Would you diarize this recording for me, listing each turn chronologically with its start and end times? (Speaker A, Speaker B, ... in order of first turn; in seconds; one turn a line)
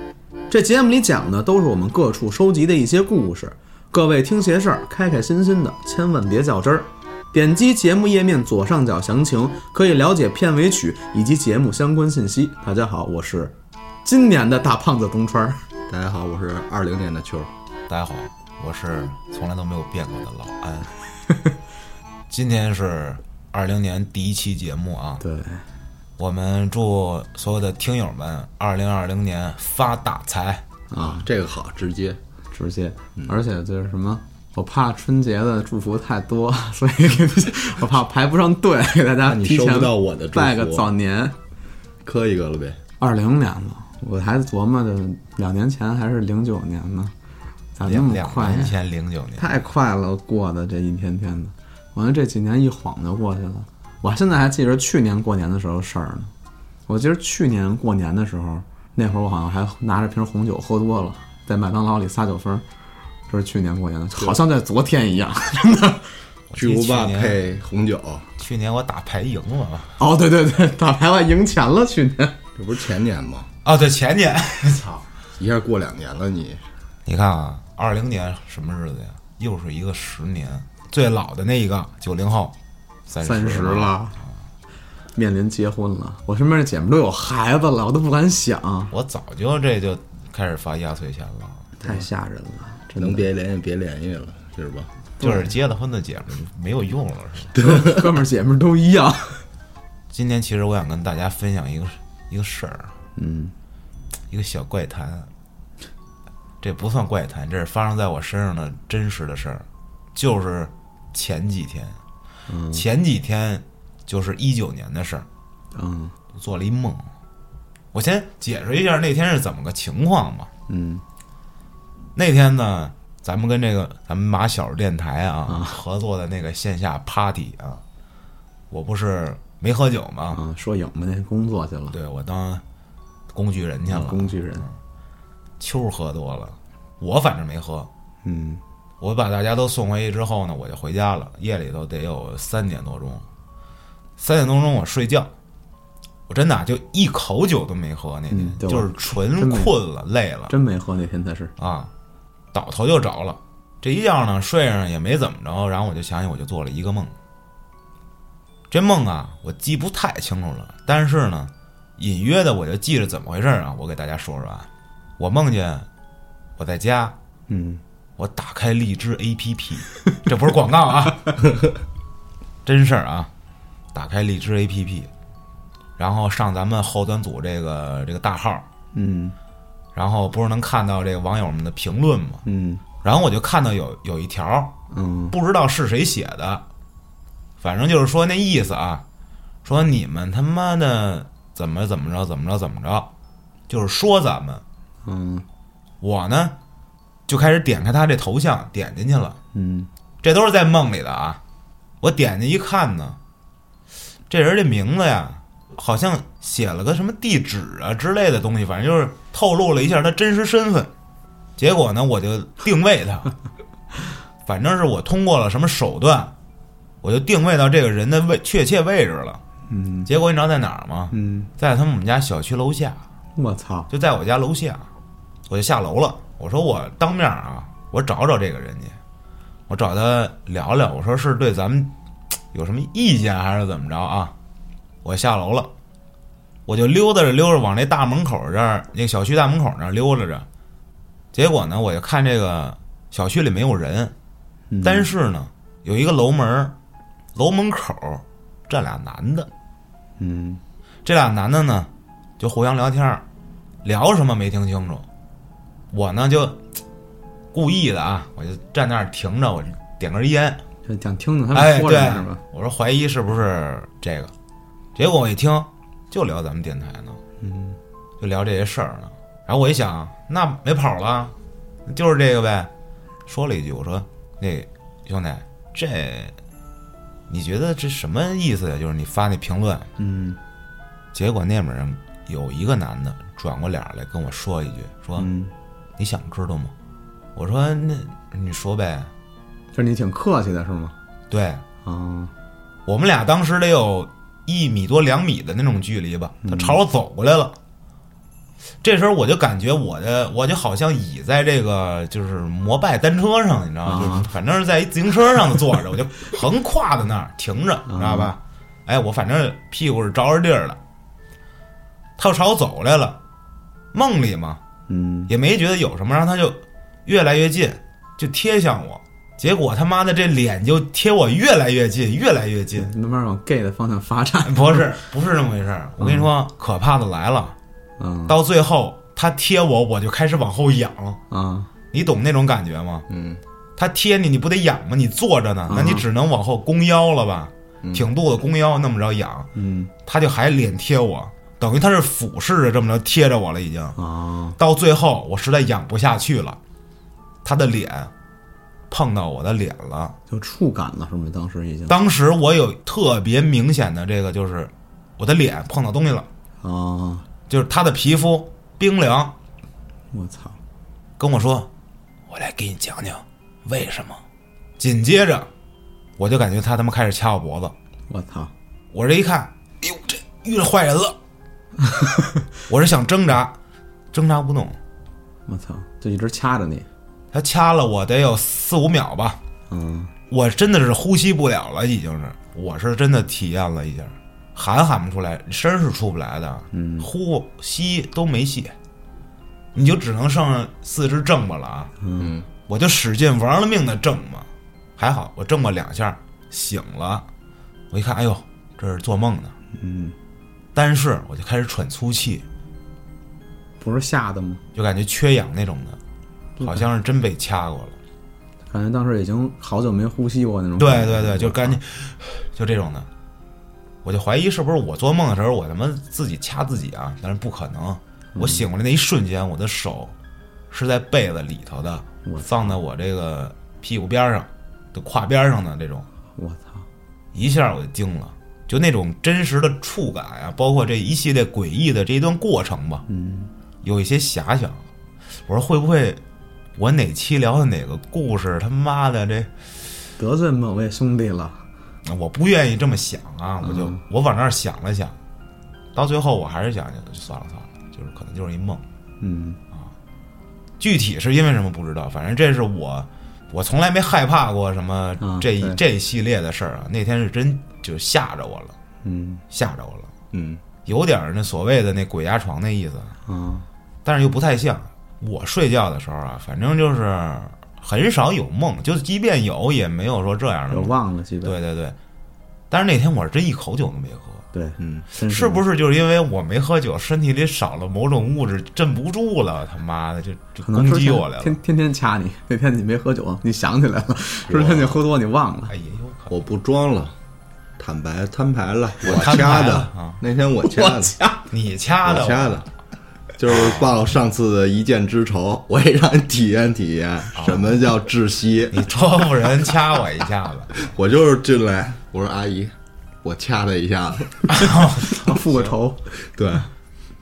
Speaker A: 0.5-13.5
Speaker A: 14.1-15.6
Speaker B: 15.9-17.5
Speaker C: 17.9-20.9
Speaker C: 22.3-25.2
Speaker A: 25.2-25.6
Speaker C: 26.2-30.6
Speaker A: 30.9-31.2
Speaker B: 31.0-32.2
Speaker A: 32.5-41.4
Speaker B: 39.3-40.9
Speaker B: 42.0-42.8
Speaker A: 43.0-47.1
Speaker A: 47.8-48.8
Speaker C: 47.9-49.5
Speaker A: 49.4-56.3
Speaker A: 56.9-62.6
Speaker A: 63.3-66.1
Speaker C: 66.5-67.4
Speaker B: 66.5-68.3
Speaker C: 68.4-70.0
Speaker A: 70.0-72.4
Speaker B: 72.6-73.5
Speaker C: 73.6-75.1
Speaker B: 75.4-76.6
Speaker C: 77.1-82.5
Speaker C: 83.1-84.0
Speaker A: 83.2-84.2
Speaker A: 85.2-88.9
Speaker C: 88.9-92.0
Speaker A: 91.8-93.3
Speaker B: 93.0-94.9
Speaker A: 95.2-95.5
Speaker C: 95.2-97.6
Speaker A: 97.5-99.4
Speaker C: 100.1-102.9
Speaker A: 103.2-103.5
Speaker C: 104.3-105.3
Speaker C: 106.6-112.0
Speaker A: 112.5-112.8
Speaker C: 112.7-115.3
Speaker A: 115.8-116.1
Speaker C: 116.3-117.1
Speaker C: 117.9-120.5
Speaker A: 120.7-121.0
Speaker C: 122.2-127.8
Speaker A: 125.5-125.8
Speaker C: 128.7-130.4
Speaker A: 130.3-132.0
Speaker C: 131.9-132.6
Speaker C: 133.3-134.7
Speaker A: 133.9-134.7
Speaker C: 135.6-137.9
Speaker A: 138.2-138.6
Speaker C: 139.0-143.2
Speaker C: 144.2-145.3
Speaker C: 146.3-150.5
Speaker A: 148.3-149.7
Speaker A: 150.5-151.5
Speaker C: 151.6-151.9
Speaker C: 152.5-157.1
Speaker C: 158.7-164.7
Speaker C: 165.2-165.9
Speaker C: 166.6-167.2
Speaker A: 167.5-167.8
Speaker C: 168.2-171.4
Speaker C: 172.7-173.3
Speaker C: 173.9-175.1
Speaker C: 176.0-178.7
Speaker A: 178.9-179.3
Speaker C: 179.9-182.4
Speaker A: 182.4-182.8
Speaker C: 183.0-184.8
Speaker A: 184.9-185.4
Speaker C: 185.3-186.6
Speaker C: 187.6-189.0
Speaker C: 189.6-193.1
Speaker C: 193.7-194.6
Speaker A: 195.1-195.4
Speaker C: 196.0-196.6
Speaker C: 197.3-199.4
Speaker A: 199.5-199.9
Speaker C: 200.2-201.4
Speaker C: 202.0-203.2
Speaker C: 204.3-210.9
Speaker C: 211.6-213.3
Speaker C: 214.4-216.3
Speaker C: 217.0-219.4
Speaker A: 219.7-220.1
Speaker C: 220.1-223.0
Speaker A: 221.1-221.5
Speaker A: 223.4-223.9
Speaker C: 223.9-224.9
Speaker C: 225.5-229.0
Speaker C: 229.7-231.9
Speaker C: 232.5-234.3
Speaker C: 235.0-235.7
Speaker C: 236.7-240.5
Speaker C: 241.3-244.1
Speaker A: 244.7-245.1
Speaker C: 244.8-246.8
Speaker C: 247.3-249.5
Speaker A: 250.2-250.6
Speaker C: 251.1-253.2
Speaker C: 253.8-255.1
Speaker C: 255.9-256.6
Speaker C: 257.5-260.6
Speaker A: 260.9-262.4
Speaker C: 261.5-264.3
Speaker C: 264.9-267.2
Speaker A: 267.4-267.8
Speaker C: 268.2-271.3
Speaker C: 271.9-272.7
Speaker C: 273.3-276.4
Speaker C: 277.3-279.9
Speaker A: 280.0-280.4
Speaker C: 281.1-285.3
Speaker A: 285.2-285.5
Speaker C: 286.0-286.7
Speaker C: 287.4-289.1
Speaker A: 289.7-290.9
Speaker C: 291.3-291.6
Speaker A: 291.8-292.3
Speaker C: 292.9-297.6
Speaker A: 296.4-296.8
Speaker C: 298.8-310.8
Speaker A: 303.9-304.3
Speaker A: 307.9-308.4
Speaker C: 312.2-313.2
Speaker C: 313.9-314.6
Speaker A: 314.9-315.3
Speaker C: 315.3-322.9
Speaker A: 322.8-325.0
Speaker C: 324.4-327.6
Speaker A: 326.0-326.3
Speaker A: 328.0-328.4
Speaker C: 328.3-331.2
Speaker A: 331.3-331.7
Speaker C: 331.9-333.1
Speaker B: 333.1-333.4
Speaker C: 333.8-339.5
Speaker A: 335.7-336.1
Speaker A: 339.6-339.9
Speaker C: 340.1-344.0
Speaker A: 344.0-344.6
Speaker C: 344.6-346.6
Speaker C: 347.4-348.1
Speaker C: 348.9-350.2
Speaker A: 350.3-351.9
Speaker C: 351.9-356.3
Speaker A: 356.6-357.3
Speaker C: 357.5-359.4
Speaker A: 360.1-360.6
Speaker C: 361.2-361.7
Speaker C: 362.3-364.2
Speaker C: 364.8-365.5
Speaker C: 366.2-367.7
Speaker A: 368.1-368.5
Speaker C: 368.9-371.2
Speaker C: 372.7-373.6
Speaker C: 374.1-374.8
Speaker A: 375.5-376.9
Speaker C: 377.3-379.4
Speaker A: 379.7-380.1
Speaker C: 380.3-388.8
Speaker A: 386.7-387.1
Speaker C: 389.7-391.9
Speaker A: 392.0-392.3
Speaker B: 392.2-392.5
Speaker C: 392.7-397.3
Speaker C: 397.9-399.6
Speaker A: 399.7-400.1
Speaker C: 400.8-402.4
Speaker A: 403.8-404.6
Speaker C: 404.8-406.0
Speaker A: 406.6-406.9
Speaker C: 406.6-408.0
Speaker A: 408.7-411.8
Speaker C: 410.8-413.1
Speaker C: 414.0-420.1
Speaker A: 418.4-418.6
Speaker C: 420.7-426.1
Speaker A: 422.2-422.8
Speaker A: 426.4-426.8
Speaker C: 427.3-433.1
Speaker A: 433.1-433.5
Speaker C: 433.8-434.8
Speaker C: 435.5-436.2
Speaker C: 436.8-439.5
Speaker A: 440.2-441.6
Speaker C: 442.1-445.2
Speaker A: 443.6-444.0
Speaker C: 445.9-448.8
Speaker A: 449.2-449.6
Speaker C: 450.8-458.8
Speaker A: 455.2-455.8
Speaker A: 459.0-459.4
Speaker C: 459.5-460.1
Speaker B: 460.3-460.6
Speaker C: 460.9-463.2
Speaker A: 463.3-463.7
Speaker C: 464.1-470.9
Speaker A: 470.7-471.6
Speaker C: 471.4-472.0
Speaker C: 472.7-474.4
Speaker A: 474.5-475.6
Speaker B: 474.8-475.1
Speaker C: 475.3-481.6
Speaker A: 480.6-485.7
Speaker B: 484.5-485.0
Speaker C: 485.7-486.4
Speaker B: 486.3-487.1
Speaker B: 487.8-491.2
Speaker C: 489.0-490.2
Speaker A: 490.6-491.4
Speaker C: 491.5-492.7
Speaker B: 492.1-492.6
Speaker B: 493.4-498.9
Speaker C: 493.5-493.9
Speaker C: 497.4-497.7
Speaker C: 498.7-500.9
Speaker B: 500.8-504.5
Speaker C: 504.5-505.7
Speaker A: 505.1-506.0
Speaker B: 506.2-506.7